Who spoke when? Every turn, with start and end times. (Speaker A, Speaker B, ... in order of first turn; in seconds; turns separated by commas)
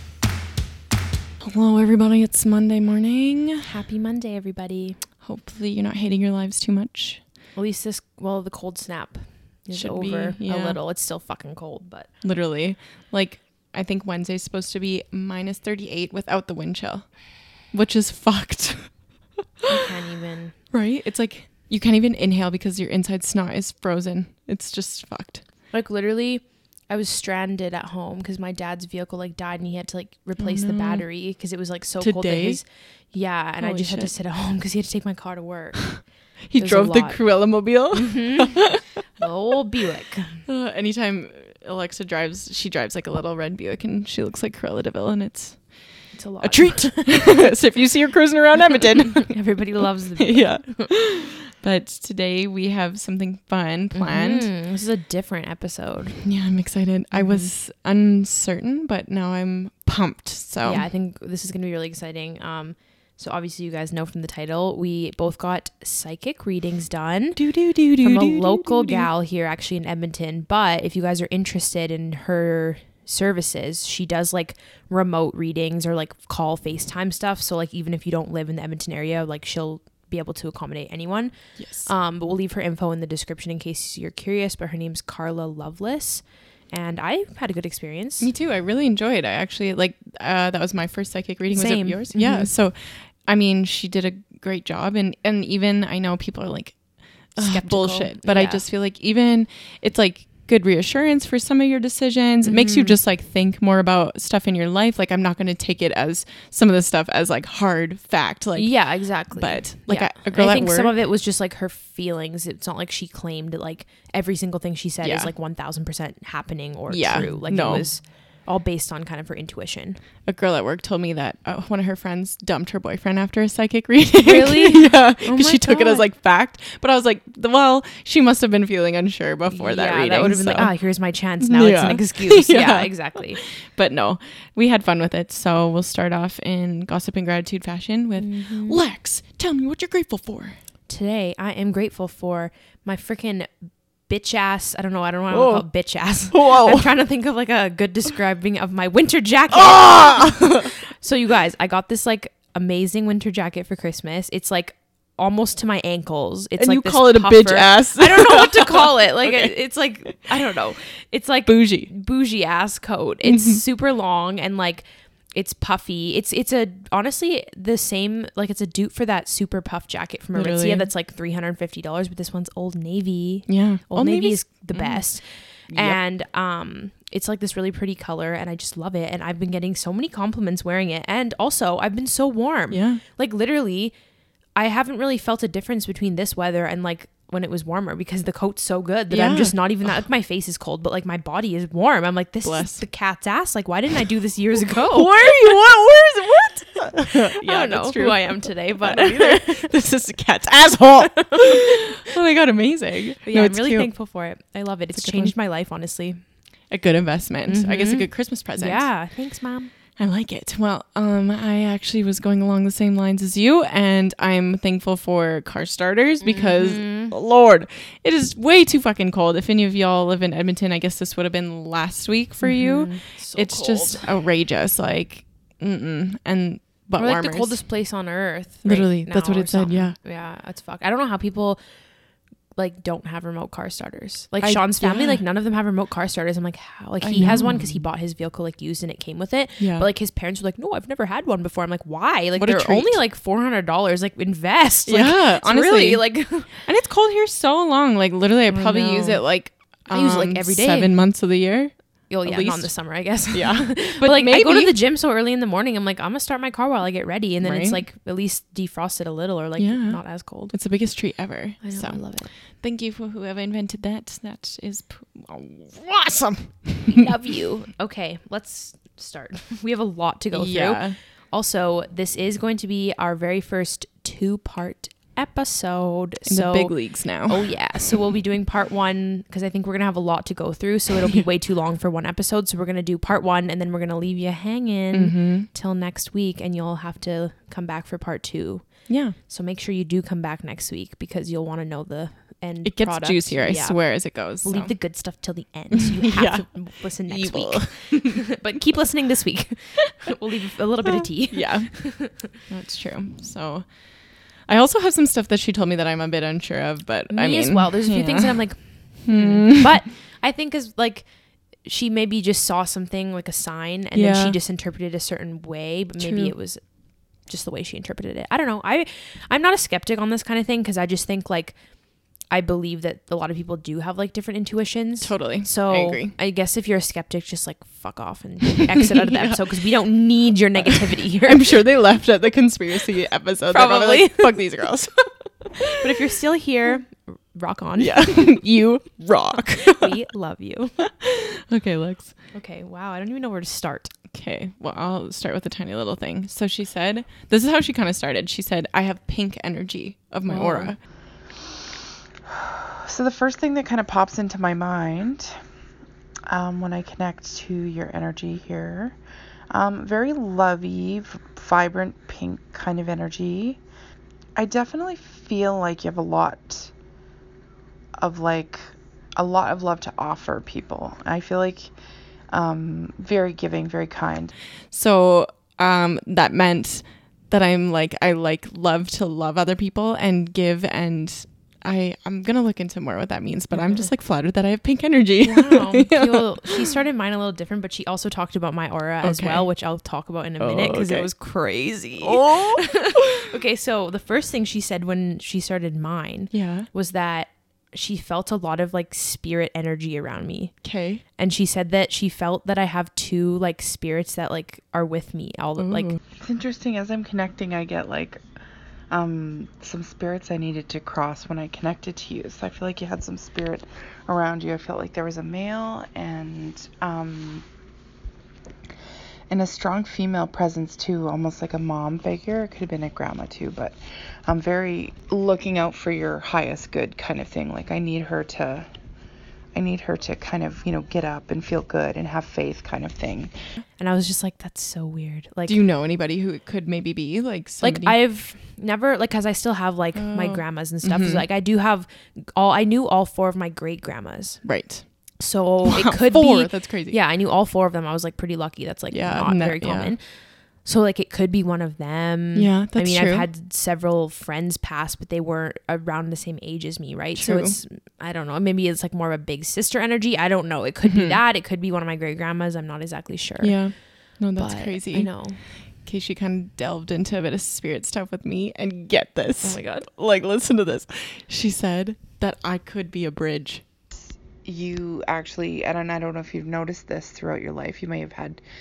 Speaker A: 1.4-3.7, Speaker B: 3.6-5.0, Speaker A: 5.2-7.2, Speaker B: 7.5-12.1, Speaker A: 9.7-10.8, Speaker A: 12.2-19.7, Speaker B: 19.7-20.6, Speaker A: 20.7-25.5, Speaker B: 25.7-40.5, Speaker A: 30.4-31.1, Speaker A: 32.0-32.7, Speaker A: 33.6-34.1, Speaker A: 36.0-39.0, Speaker A: 40.5-45.9, Speaker B: 46.1-47.4, Speaker A: 46.4-49.6, Speaker B: 49.3-50.9, Speaker A: 50.2-54.5, Speaker B: 53.9-56.3, Speaker A: 56.2-60.9, Speaker B: 57.1-57.5, Speaker B: 60.6-88.3, Speaker A: 67.4-69.1, Speaker A: 81.6-81.9, Speaker A: 88.2-110.9, Speaker B: 91.5-92.5, Speaker B: 97.4-98.6, Speaker B: 102.4-103.0, Speaker B: 108.6-120.0, Speaker A: 115.0-115.3, Speaker A: 116.9-117.9, Speaker A: 120.2-140.6, Speaker B: 124.2-126.1, Speaker B: 129.5-133.4, Speaker B: 138.2-138.8, Speaker B: 140.9-184.0, Speaker A: 145.3-146.9, Speaker A: 149.5-150.7, Speaker A: 156.6-159.5, Speaker A: 161.5-161.9, Speaker A: 163.2-163.6, Speaker A: 170.3-170.9, Speaker A: 173.5-176.0, Speaker A: 182.7-183.0, Speaker B: 184.6-195.6, Speaker A: 189.1-189.9, Speaker A: 192.4-192.9, Speaker A: 194.9-203.9, Speaker B: 197.2-199.7, Speaker B: 201.2-201.6, Speaker B: 203.2-206.2, Speaker A: 204.9-205.4, Speaker A: 206.7-209.0, Speaker B: 207.5-209.7, Speaker A: 210.0-227.7, Speaker B: 216.2-217.1, Speaker B: 222.4-224.2, Speaker B: 227.0-232.0, Speaker A: 228.6-230.0, Speaker B: 232.6-246.6, Speaker A: 234.4-235.2, Speaker A: 237.0-237.9, Speaker A: 239.6-239.9, Speaker A: 242.4-243.0, Speaker A: 244.9-254.8, Speaker B: 248.5-251.0, Speaker B: 252.1-260.6, Speaker A: 257.4-257.8, Speaker A: 259.6-267.1, Speaker B: 261.6-262.3, Speaker B: 266.9-302.3, Speaker A: 270.3-271.0, Speaker A: 276.3-278.0, Speaker A: 284.9-285.5, Speaker A: 288.9-289.2, Speaker A: 292.6-294.8, Speaker A: 296.0-298.2, Speaker A: 300.9-309.8, Speaker B: 307.1-331.6, Speaker A: 313.9-314.4, Speaker A: 316.0-316.3, Speaker A: 325.0-326.2, Speaker A: 329.0-329.6, Speaker A: 331.3-335.6, Speaker B: 333.5-334.4, Speaker B: 335.8-338.3, Speaker A: 337.8-339.9, Speaker B: 339.7-340.9, Speaker A: 341.0-342.3, Speaker B: 342.3-343.9, Speaker A: 344.1-350.8, Speaker B: 350.3-350.8, Speaker C: 352.4-355.4, Speaker C: 356.3-359.0, Speaker C: 359.5-363.6, Speaker C: 364.4-366.7, Speaker C: 368.0-371.7, Speaker C: 372.3-374.4, Speaker A: 374.7-386.6, Speaker B: 383.6-383.8, Speaker B: 385.2-405.9, Speaker A: 389.0-389.5, Speaker A: 390.4-391.1, Speaker A: 392.0-393.1, Speaker A: 396.3-396.7, Speaker A: 400.6-401.0, Speaker A: 405.6-406.0, Speaker C: 406.2-408.2, Speaker C: 408.9-417.5, Speaker C: 419.3-428.7, Speaker C: 429.6-433.3, Speaker B: 433.8-435.6, Speaker A: 435.5-438.0, Speaker B: 437.6-465.4, Speaker A: 439.9-441.3, Speaker A: 444.4-447.0, Speaker A: 448.9-450.0, Speaker A: 452.4-453.3, Speaker A: 457.2-457.6, Speaker A: 460.8-461.2, Speaker A: 463.4-473.6, Speaker B: 469.4-469.9, Speaker C: 473.9-478.4